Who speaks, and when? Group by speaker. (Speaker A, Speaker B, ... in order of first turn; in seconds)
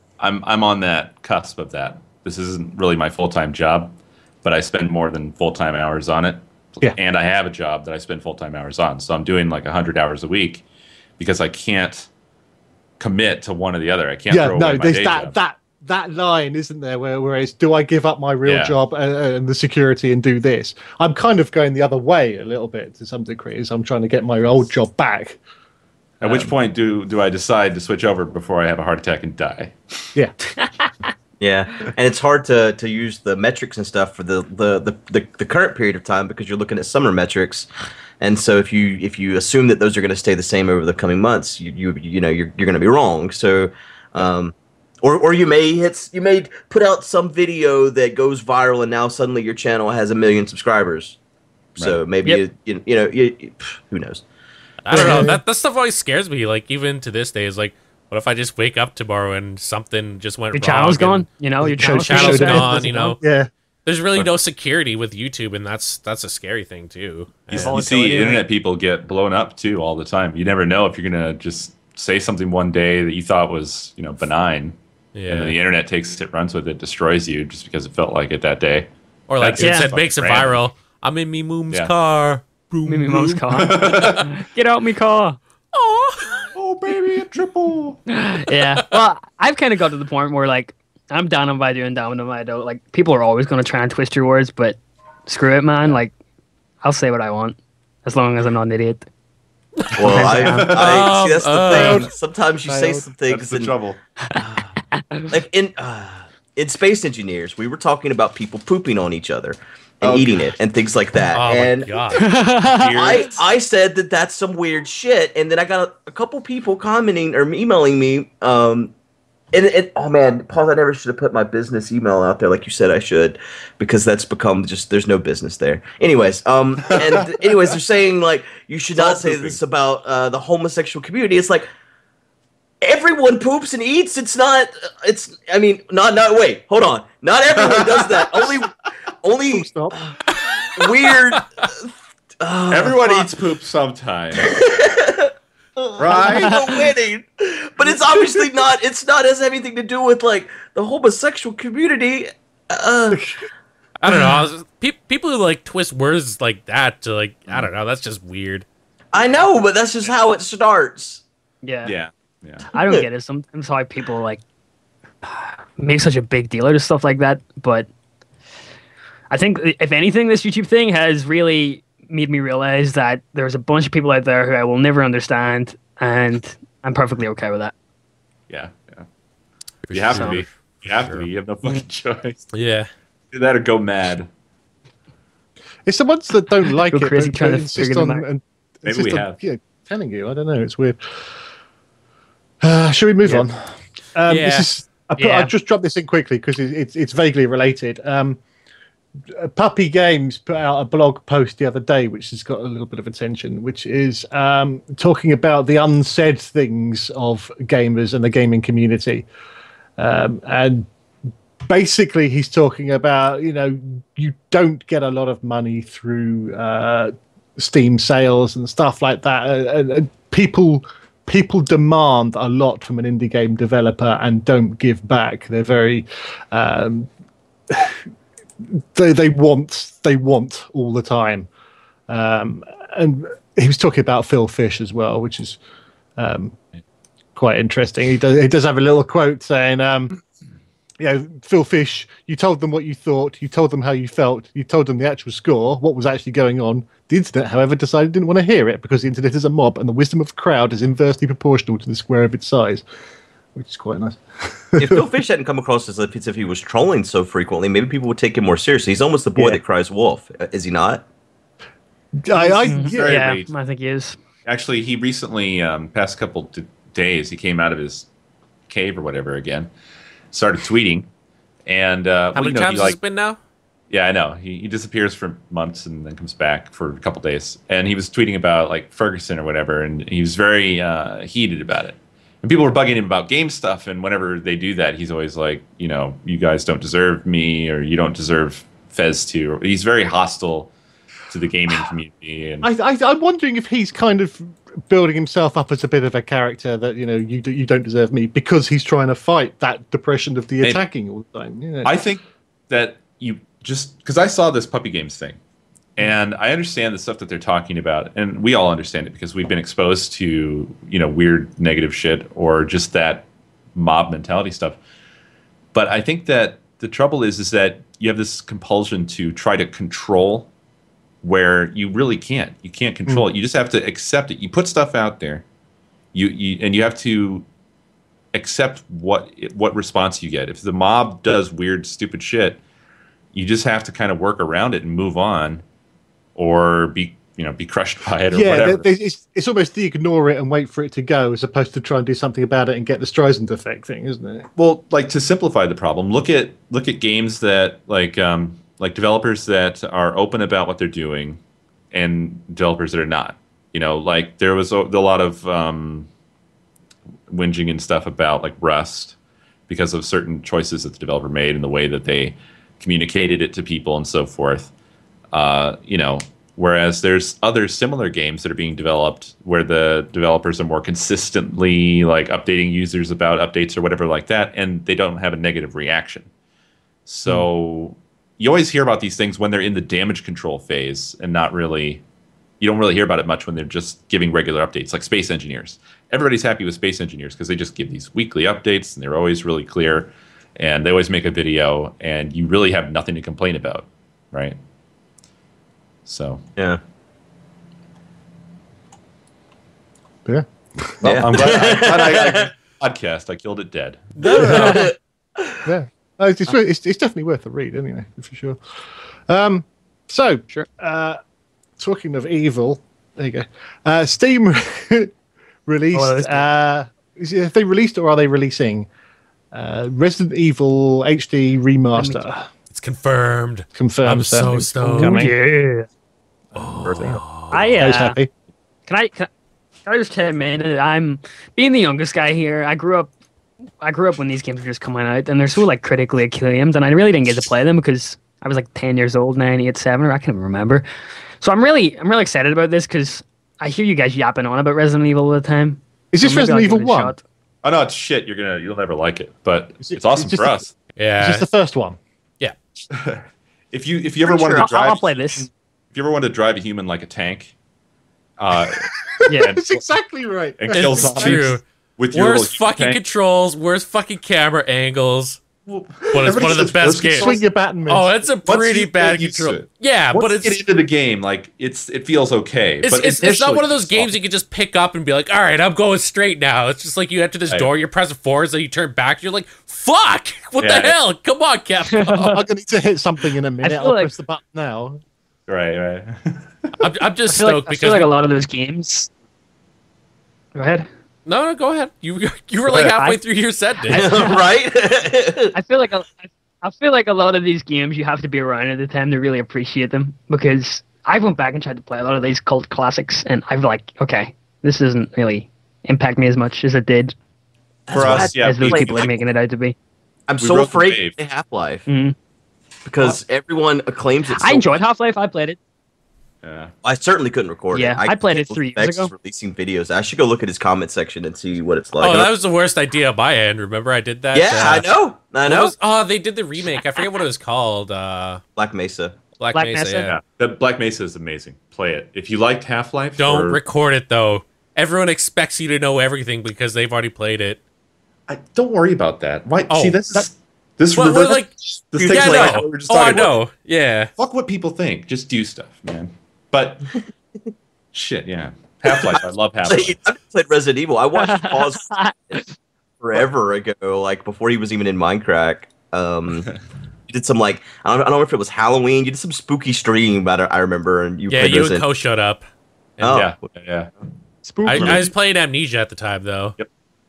Speaker A: 0.2-10.6, 11.2-12.1, 13.0-15.3, 18.4-18.7, 26.2-29.7, 67.5-74.8, 75.3-80.6, 83.5-84.3, 86.5-88.0, 100.1-101.0, 103.3-104.0, 110.0-110.3, 112.7-113.3, 126.9-127.2, 128.9-129.6, 137.6-138.6, 142.7-144.6, 146.0-146.8, 161.8-162.7, 178.5-179.1, 179.9-182.5, 183.3-184.3, 188.8-189.4, 262.5-263.5, 264.4-268.1, 268.7-269.7, 270.3-271.1, 271.6-273.0, 273.9-290.7, 291.3-292.7, 301.8-305.4, 305.9-314.8, 315.7-320.5, 321.2-325.4, 326.1-327.4, 328.3-332.6, 333.3-335.6, 336.4-338.9, 344.6-351.4, 351.9-356.1, 357.3-359.1, 359.7-364.7, 365.3-376.3, 377.1-382.0, 382.6-394.6, 396.1-396.4, 401.0-404.8, 426.6-427.2, 447.6-450.7, 452.9-457.5, 458.4-459.8, 460.6-463.0, 465.6-467.4, 468.4-474.1, 480.6-480.9, 485.5-486.7, 507.9-509.2, 510.4-511.2, 516.4-516.7, 530.0-533.6, 538.3-543.3, 544.2-546.9, 547.9-550.0, 563.0-563.9, 564.7-565.0
Speaker B: 14.3-25.4, 26.2-26.5, 54.9-55.4, 61.6-63.5, 101.7-102.1, 102.7-103.1, 139.5-139.9, 153.1-153.3, 185.8-191.0, 192.6-193.6, 194.1-198.4, 199.3-209.2, 210.0-210.9, 211.6-227.1, 227.7-228.0, 228.6-231.5, 232.1-235.6, 236.2-236.6, 237.3-240.2, 241.0-252.8, 253.5-255.1, 262.2-263.1, 292.6-302.0, 338.3-344.5, 400.2-401.2, 405.6-408.6, 409.3-411.2, 411.8-415.1, 415.7-418.9, 419.5-422.5, 423.7-425.3, 427.8-428.3, 446.1-447.1, 449.8-450.6, 451.2-452.0, 459.2-461.4, 466.3-468.1, 482.2-485.0, 564.5-565.0
Speaker C: 31.4-37.7, 38.2-51.2, 51.8-54.2, 100.0-103.7, 104.3-104.7, 105.3-112.0, 112.9-118.9, 119.5-131.7, 132.8-140.1, 140.8-141.9, 142.4-143.3, 144.4-153.3, 159.1-161.2, 254.8-261.0, 401.0-402.5, 404.2-405.6, 493.9-495.5, 507.9-509.1, 510.3-511.9, 512.8-514.8, 516.8-522.3, 524.3-525.7, 528.6-529.1, 542.0-543.3, 548.9-552.5, 553.0-556.5, 557.1-561.8, 563.0-563.4
Speaker D: 54.8-61.2, 61.9-63.2, 63.9-67.8, 75.1-75.6, 79.3-83.4, 85.7-86.5, 99.8-102.1, 111.3-112.3, 154.0-158.7, 179.9-181.3, 182.5-182.9, 194.3-194.7, 272.3-273.4, 404.3-404.9, 422.7-425.2, 426.5-427.9, 450.9-451.5, 460.7-465.4, 466.1-470.6, 472.8-482.4, 486.8-488.1, 491.2-494.3, 522.0-524.9, 525.4-528.4, 529.4-530.1, 533.2-537.6, 539.7-540.2, 540.9-541.5, 542.0-544.1, 561.3-562.4, 564.6-566.5
Speaker E: 60.5-62.8, 67.6-68.4, 79.6-79.9, 82.9-85.4, 88.1-96.1, 96.8-99.0, 100.1-100.7, 105.0-105.3, 112.1-113.2, 161.6-161.9, 162.7-164.4, 165.2-167.9, 169.3-177.7, 186.9-188.2, 195.2-195.5, 262.4-264.2, 415.9-416.5, 421.9-422.2, 424.9-425.9, 427.5-428.2, 428.9-429.3, 429.9-433.1, 433.8-440.8, 441.4-447.2, 454.5-455.5, 459.3-459.5, 481.9-482.3, 483.6-484.1, 487.3-489.1, 490.5-490.9, 492.9-493.2, 493.8-494.5, 495.5-507.1, 508.0-509.8, 511.9-512.1, 514.3-515.6, 517.7-519.1, 529.5-530.1, 551.2-552.1